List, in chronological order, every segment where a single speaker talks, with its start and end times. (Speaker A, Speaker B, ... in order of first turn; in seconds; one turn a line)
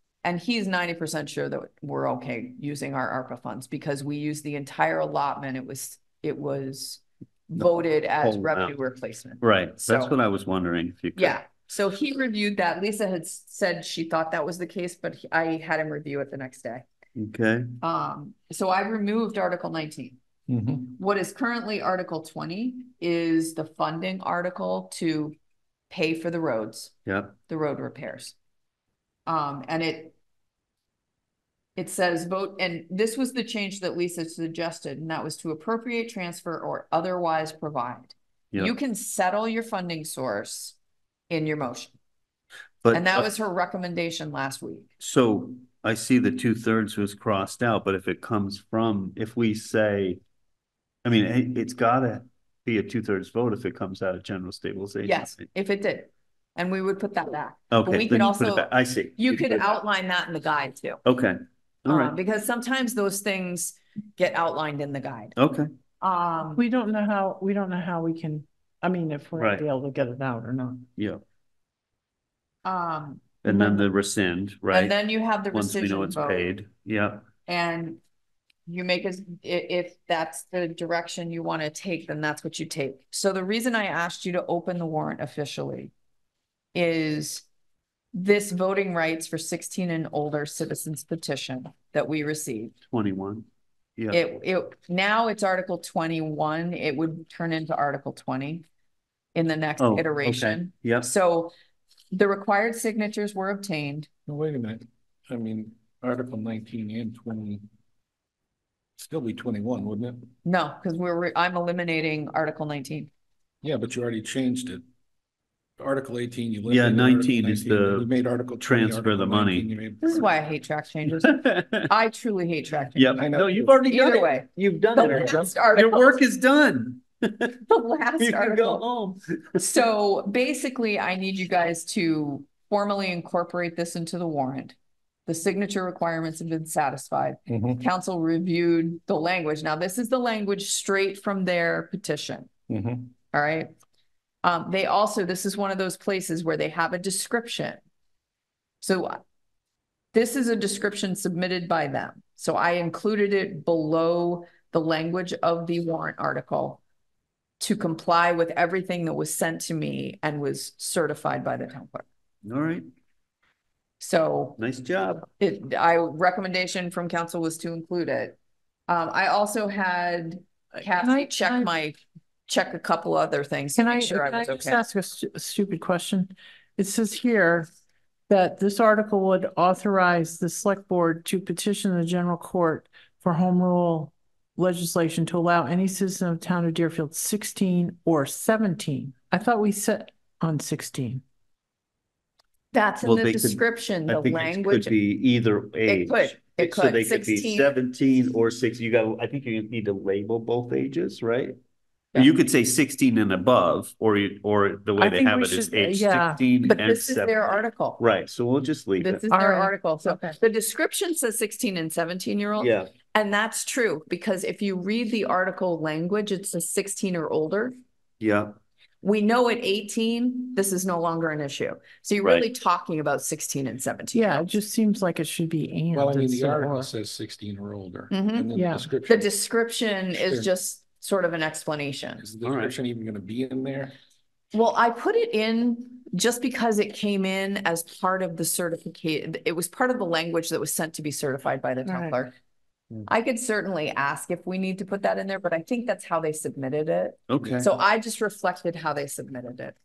Speaker A: 0.2-10.1
Speaker B: 7.6-8.7
Speaker B: 9.4-11.4
Speaker A: 11.2-16.8
Speaker B: 17.1-17.8
Speaker A: 17.8-20.2
Speaker C: 20.5-20.9
Speaker A: 20.9-25.4
Speaker A: 25.9-26.9
Speaker B: 27.1-27.3
Speaker A: 27.5-28.3
Speaker A: 29.2-30.1
Speaker A: 31.8-40.7
Speaker A: 41.3-41.9
Speaker B: 42.8-43.3
Speaker A: 42.9-44.9
Speaker B: 45.0-50.2
Speaker B: 51.0-55.4
Speaker A: 55.0-61.0
Speaker B: 57.7-59.7
Speaker B: 61.0-62.1
Speaker A: 61.9-65.3
Speaker B: 65.4-65.7
Speaker A: 66.0-66.6
Speaker D: 66.5-70.8
Speaker B: 69.4-69.6
Speaker A: 72.6-73.8
Speaker B: 73.4-75.0
Speaker A: 74.7-76.5
Speaker B: 75.5-77.3
Speaker A: 77.5-78.0
Speaker A: 78.7-85.9
Speaker A: 86.7-87.4
Speaker A: 88.1-92.7
Speaker B: 92.9-94.2
Speaker A: 94.1-98.6
Speaker A: 99.3-101.5
Speaker B: 99.8-101.1
Speaker A: 102.1-104.1
Speaker C: 104.3-107.6
Speaker C: 109.0-110.3
Speaker A: 110.4-113.1
Speaker C: 113.6-114.8
Speaker C: 115.8-120.3
Speaker B: 116.7-118.1
Speaker B: 118.6-119.7
Speaker A: 120.0-123.2
Speaker B: 121.1-121.9
Speaker B: 123.0-127.6
Speaker C: 123.2-123.8
Speaker A: 123.8-126.2
Speaker C: 125.0-125.5
Speaker A: 127.7-128.8
Speaker B: 128.2-129.8
Speaker A: 129.6-134.7
Speaker A: 135.3-142.5
Speaker C: 137.5-137.8
Speaker C: 142.7-143.1
Speaker A: 143.3-143.7
Speaker A: 144.4-147.8
Speaker A: 148.8-149.2
Speaker A: 150.1-156.8
Speaker A: 157.6-162.0
Speaker B: 162.4-162.9
Speaker A: 164.0-164.6
Speaker B: 164.6-165.2
Speaker A: 165.2-168.3
Speaker A: 168.9-174.8
Speaker D: 170.7-171.7
Speaker D: 173.8-177.7
Speaker D: 178.3-191.2
Speaker A: 192.7-194.9
Speaker B: 193.0-201.6
Speaker A: 195.8-197.7
Speaker B: 202.1-209.2
Speaker D: 205.0-206.4
Speaker A: 206.6-208.0
Speaker A: 209.0-217.8
Speaker D: 209.3-210.4
Speaker B: 212.6-212.9
Speaker B: 218.2-218.5
Speaker A: 219.0-224.6
Speaker B: 222.2-222.5
Speaker D: 224.1-226.9
Speaker C: 225.9-229.3
Speaker A: 228.1-228.5
Speaker D: 228.5-228.9
Speaker A: 229.0-232.3
Speaker C: 230.1-230.5
Speaker C: 232.2-233.9
Speaker B: 232.4-232.7
Speaker A: 234.5-242.3
Speaker D: 241.8-242.2
Speaker A: 243.1-249.8
Speaker B: 247.3-247.7